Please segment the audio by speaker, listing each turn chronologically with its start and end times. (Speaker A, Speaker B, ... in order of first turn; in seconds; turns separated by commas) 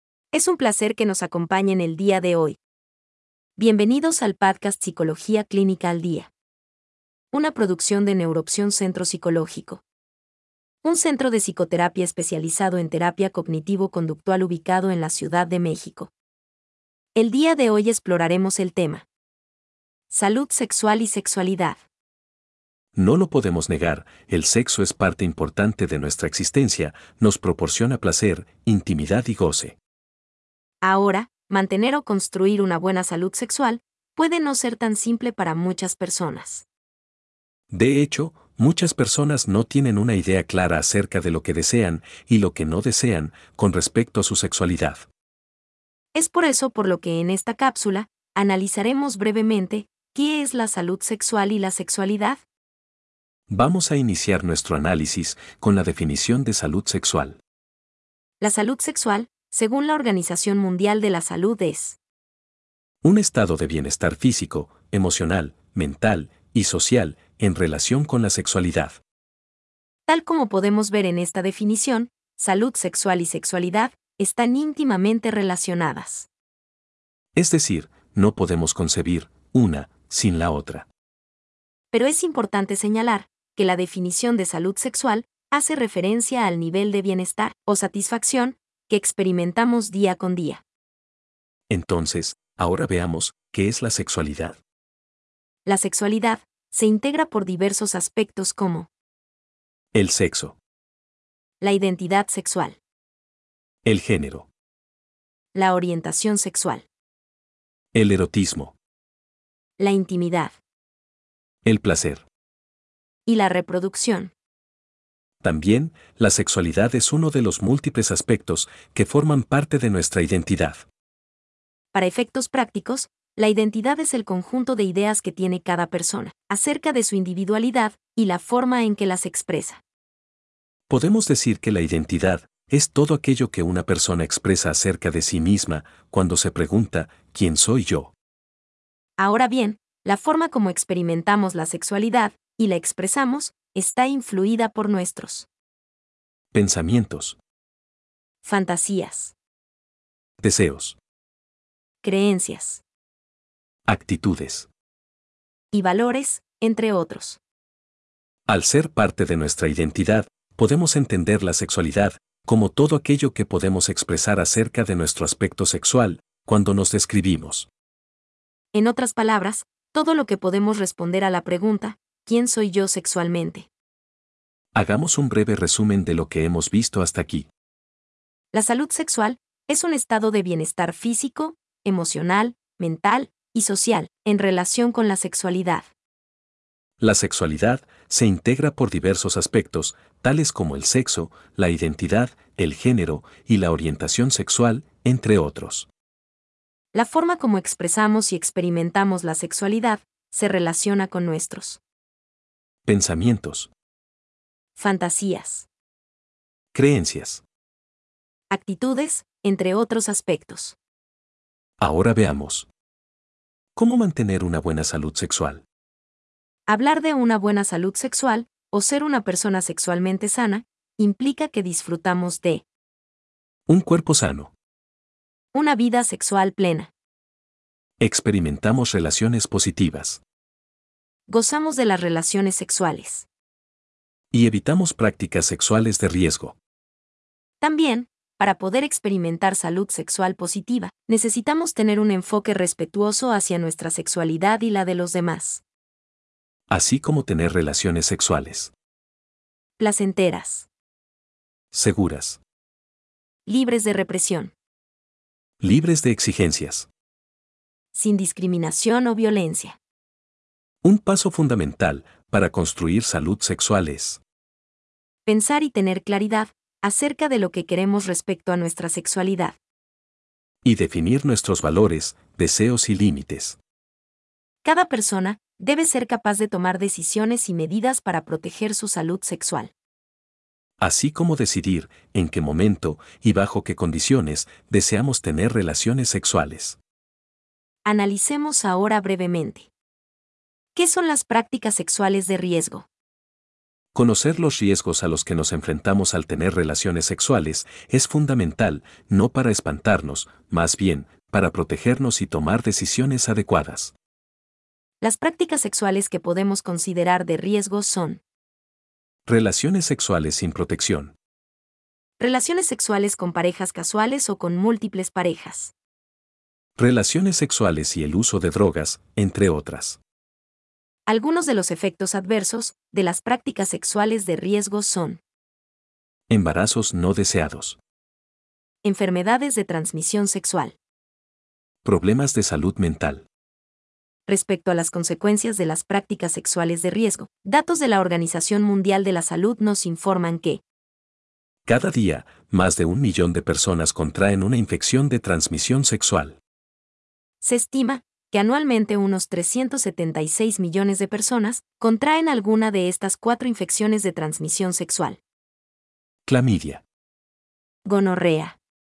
Speaker A: 0.3-2.6, Speaker A: 3.6-6.3, Speaker A: 7.3-9.8, Speaker A: 10.8-16.1, Speaker A: 17.1-19.1, Speaker A: 20.1-21.8, Speaker B: 22.9-29.8, Speaker A: 30.8-36.6, Speaker B: 37.7-45.1, Speaker A: 46.1-52.4, Speaker B: 53.5-57.4, Speaker A: 58.4-62.0, Speaker B: 63.0-69.0, Speaker A: 70.1-76.3, Speaker B: 77.3-80.9, Speaker A: 81.9-90.6, Speaker B: 91.7-94.6, Speaker A: 95.7-98.9, Speaker B: 99.9-100.6, Speaker A: 101.6-102.8, Speaker B: 103.8-104.5, Speaker A: 105.5-106.9, Speaker B: 107.9-108.8, Speaker A: 109.8-110.6, Speaker B: 111.7-112.3, Speaker A: 113.3-114.3, Speaker B: 115.4-120.8, Speaker A: 121.9-129.8, Speaker B: 130.9-138.1, Speaker A: 139.2-145.5, Speaker B: 146.5-147.4, Speaker A: 148.4-149.3, Speaker B: 150.4-151.0, Speaker A: 152.0-152.8, Speaker B: 153.9-154.7, Speaker A: 155.7-157.4, Speaker B: 158.5-167.7, Speaker A: 168.7-173.7, Speaker B: 174.8-177.5, Speaker A: 178.5-185.9, Speaker B: 187.0-195.9, Speaker A: 196.9-201.8, Speaker B: 202.8-203.7, Speaker A: 204.8-205.7, Speaker B: 206.7-207.4, Speaker A: 208.5-210.8, Speaker B: 211.8-212.7, Speaker B: 213.8-215.6, Speaker A: 216.7-222.6, Speaker B: 223.7-224.5, Speaker A: 225.5-226.9, Speaker B: 228.0-230.2, Speaker A: 231.3-233.3, Speaker B: 234.3-236.6, Speaker A: 237.6-245.6, Speaker B: 246.7-248.7, Speaker A: 249.8-250.7, Speaker B: 251.7-252.4, Speaker A: 253.5-254.5, Speaker B: 255.6-256.9, Speaker A: 257.9-259.8, Speaker B: 260.8-264.2, Speaker A: 265.3-269.6, Speaker B: 270.6-273.6, Speaker A: 274.6-279.7, Speaker B: 280.8-286.8, Speaker A: 287.9-289.7, Speaker A: 290.8-292.9, Speaker B: 293.9-303.9, Speaker A: 305.0-308.2, Speaker B: 309.3-311.1, Speaker A: 312.2-315.7, Speaker B: 316.8-320.0, Speaker A: 321.1-325.2, Speaker B: 326.3-327.8, Speaker A: 328.8-330.8, Speaker B: 331.8-333.3, Speaker A: 334.3-340.6, Speaker B: 341.6-346.4, Speaker A: 347.4-355.2, Speaker B: 356.3-356.8, Speaker A: 357.9-358.6